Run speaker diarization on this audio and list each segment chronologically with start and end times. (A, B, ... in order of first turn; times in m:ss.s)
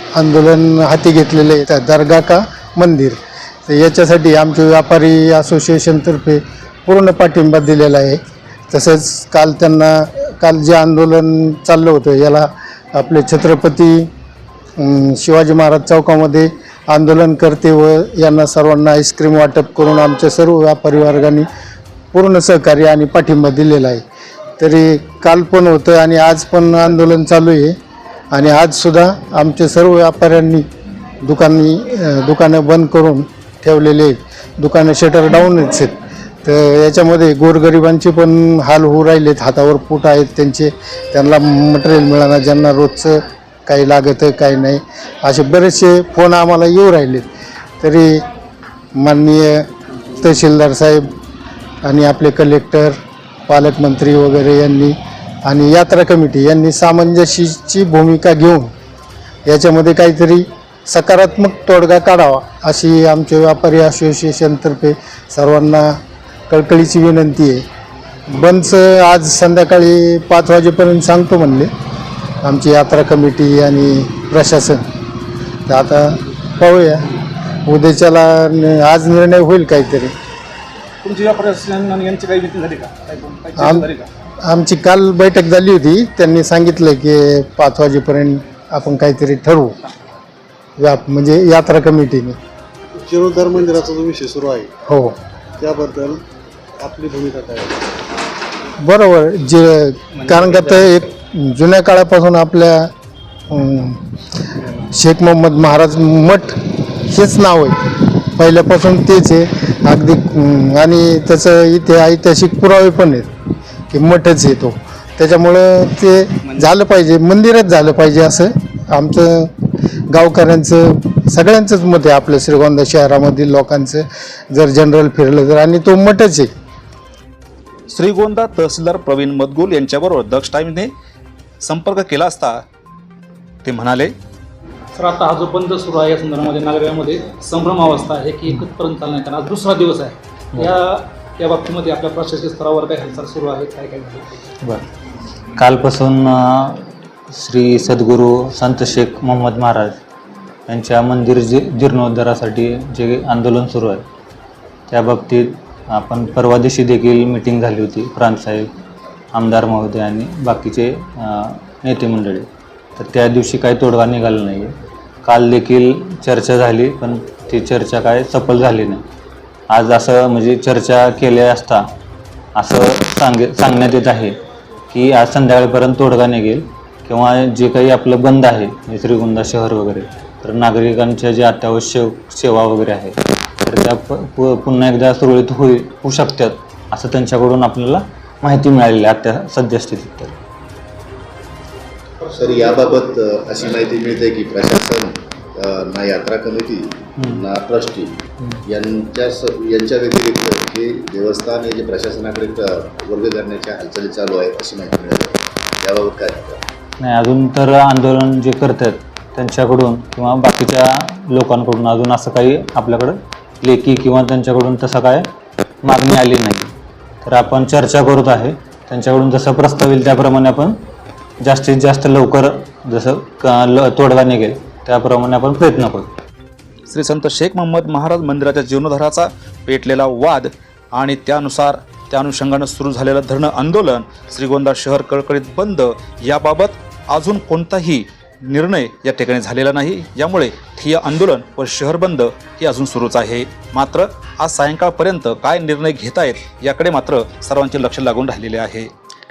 0:00.2-0:14.1 A
0:14.8-0:21.5 A
0:22.1-0:24.0 A
0:24.6-0:27.8 A
0:28.3-0:30.6 A
0:31.2-0:47.2 A
0:47.8-0:48.2 A
0:49.0-0:49.7 A
0:50.2-0:51.1 A
0:51.8-0:58.7 A
0:59.5-1:07.6 A
1:08.3-1:11.7 A
1:12.4-1:14.8 A
1:15.7-1:17.1 A
1:17.6-1:20.1 A
1:21.0-1:24.0 B
1:23.6-1:23.9 A
1:24.4-1:29.8 A
1:30.8-1:32.4 A
1:33.0-1:34.7 C
1:34.9-1:35.2 A
1:35.6-1:36.2 C
1:36.8-1:37.8 C
1:38.8-1:42.9 A
1:43.5-1:44.0 A
1:44.9-1:47.8 A
1:48.4-1:53.3 A
1:53.9-1:59.5 A
2:00.1-2:06.5 A
2:07.9-2:10.9 D
2:11.6-2:12.6 D
2:13.6-2:14.1 D
2:15.0-2:24.2 B
2:25.6-2:30.0 E
2:30.7-2:34.0 E
2:34.9-2:38.7 E
2:39.3-2:44.7 E
2:45.2-2:49.0 E
2:49.7-2:51.8 E
2:52.6-2:54.4 E
2:54.9-3:10.4 E
3:12.3-3:26.6 F
3:27.0-3:35.3 E
3:35.8-3:36.7 E
3:37.2-3:40.8 E
3:41.4-3:46.1 E
3:46.9-4:08.9 D